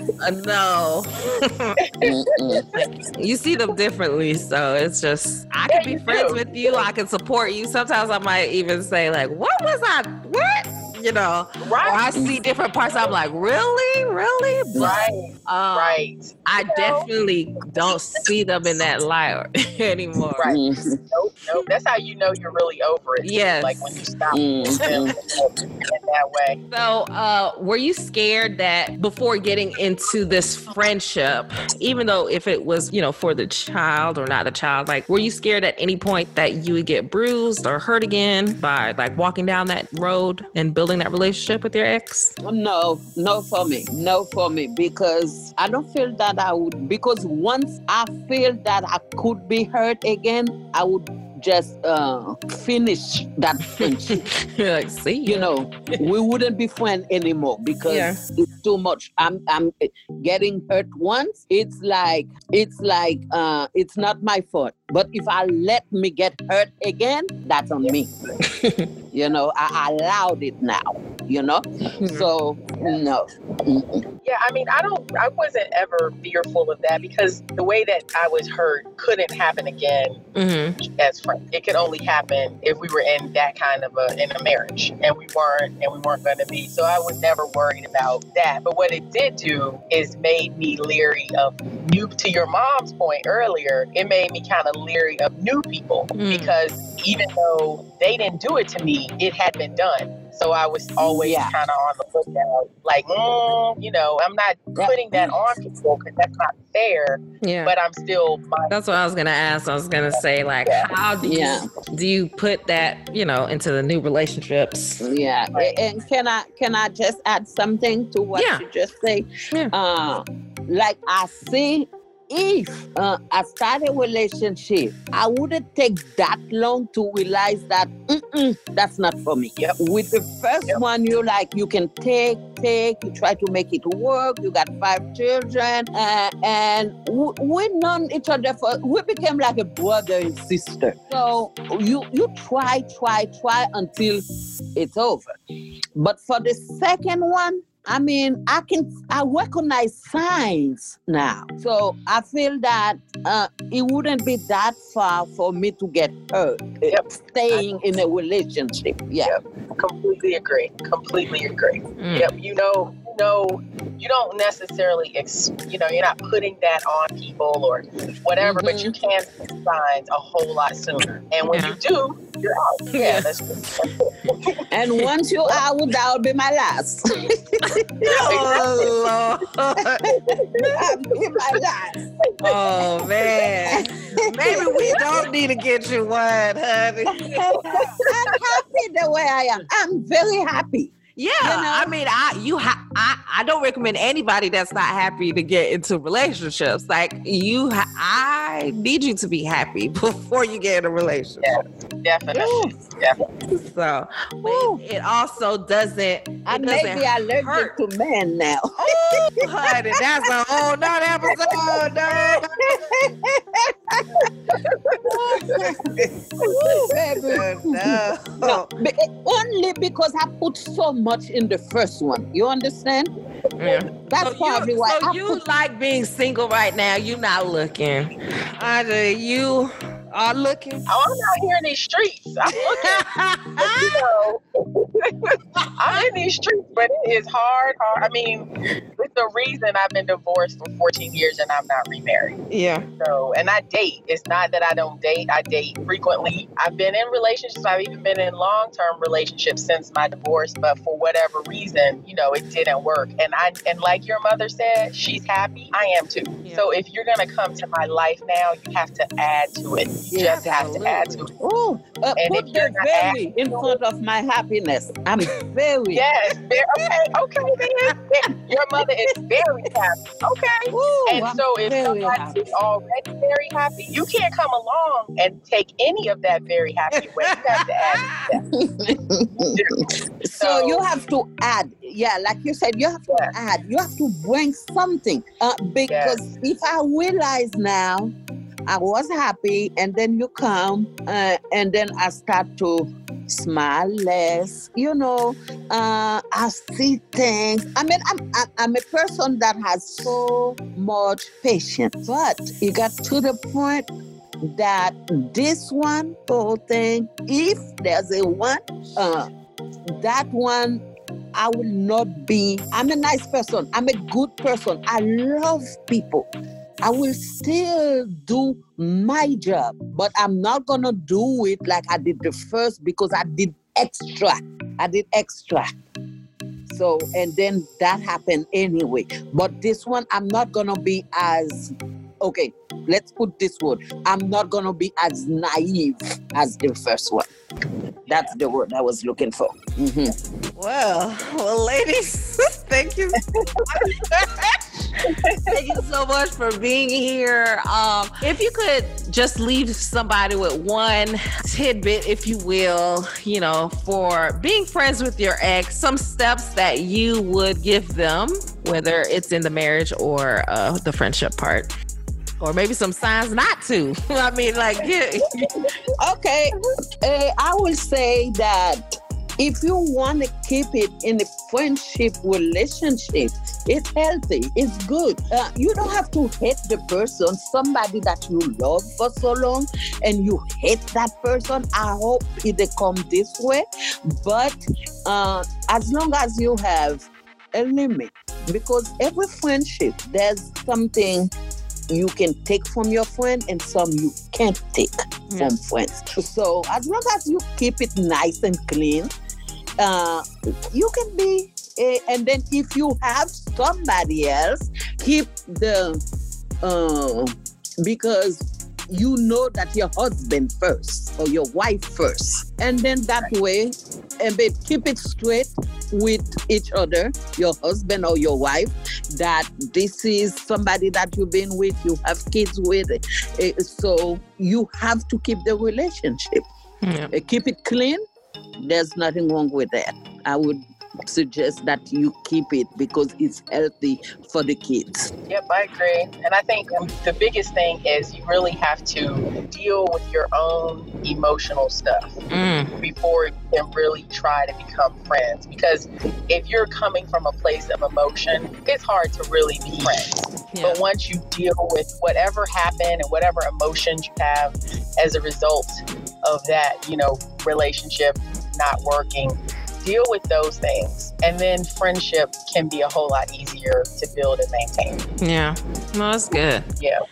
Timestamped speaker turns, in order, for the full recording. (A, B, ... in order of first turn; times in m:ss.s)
0:00.2-0:01.8 A
0:01.9-0:02.9 B
0:02.0-0:02.7 C
0:03.2-0:20.5 A
0:05.6-0:06.8 B
0:11.6-0:12.1 B
0:12.9-0:13.1 B
0:14.7-0:15.0 C
0:14.8-0:17.1 B
0:17.8-0:18.2 B
0:20.4-0:26.6 B
0:20.4-0:21.0 C
0:23.2-0:23.8 A
0:24.3-0:25.2 C
0:24.7-0:25.0 A
0:26.7-0:42.3 A
0:42.4-0:54.3 C
0:53.8-0:56.0 A
0:55.2-1:08.1 C
0:57.9-0:58.2 A
1:08.4-1:08.8 A
1:09.1-1:14.0 C
1:12.0-1:12.3 A
1:14.2-1:20.2 B
1:20.3-1:20.8 A
1:20.9-1:48.7 B
1:36.1-1:36.5 A
1:41.0-1:41.5 C
1:44.8-1:45.3 C
1:47.4-1:47.7 A
1:48.7-1:55.0 A
1:50.1-1:50.9 B
1:51.2-1:51.7 C
1:55.0-2:24.2 C
1:58.3-1:58.6 A
2:24.7-2:25.3 C
2:26.0-2:39.3 C
2:36.9-2:37.7 B
2:39.2-2:54.5 B
2:42.0-2:42.3 A
2:48.4-2:48.9 C
2:51.4-2:51.8 A
2:52.9-2:53.3 A
2:54.2-2:55.1 A
2:54.7-2:57.8 C
2:57.6-3:00.1 A
2:58.0-2:58.9 B
3:00.1-3:00.8 B
3:00.5-3:02.0 C
3:02.4-3:07.9 A
3:03.6-3:05.0 C
3:07.1-3:11.9 C
3:08.1-3:08.4 B
3:11.2-3:21.6 A
3:21.4-3:23.2 B
3:22.3-3:22.7 C
3:23.5-3:27.7 A
3:24.4-3:24.8 C
3:26.5-3:29.7 C
3:28.8-3:32.8 A
3:31.2-3:34.3 C
3:34.9-3:35.6 C
3:35.1-3:38.7 A
3:36.4-3:43.1 C
3:43.6-3:50.9 A
3:44.1-3:45.4 C
3:50.9-3:53.1 B
3:52.5-3:54.0 A
3:53.6-4:02.4 B
3:55.6-3:56.1 A
4:02.5-4:02.8 A
4:03.0-4:21.3 B
4:16.4-4:16.7 A
4:20.1-4:21.3 A
4:21.4-4:26.0 C
4:22.2-4:23.8 B
4:25.9-4:38.5 B
4:27.6-4:28.0 A
4:30.7-4:32.4 C
4:36.9-4:38.3 A
4:38.5-4:48.1 C
4:39.4-4:40.8 B
4:45.9-4:46.2 B
4:48.7-5:03.9 C
5:04.4-5:09.3 C
5:09.9-5:10.8 C
5:11.3-5:16.3 C
5:16.8-5:25.7 C
5:26.7-5:37.3 C
5:38.1-5:38.3 B
5:38.1-5:40.1 C
5:40.6-5:44.9 A
5:45.1-5:45.5 B
5:45.4-6:01.7 A
6:02.4-6:05.6 A
6:05.4-6:05.6 B
6:06.0-6:08.8 C
6:09.4-6:31.3 C
6:31.9-6:39.1 C
6:35.3-6:35.5 A
6:39.8-6:46.0 C
6:46.6-7:06.4 C
7:06.8-7:07.1 A
7:07.1-7:08.0 C
7:08.6-7:15.1 C
7:15.3-7:22.2 B
7:22.3-7:22.7 A
7:22.8-7:45.1 B
7:30.5-7:30.8 A
7:45.2-7:46.6 A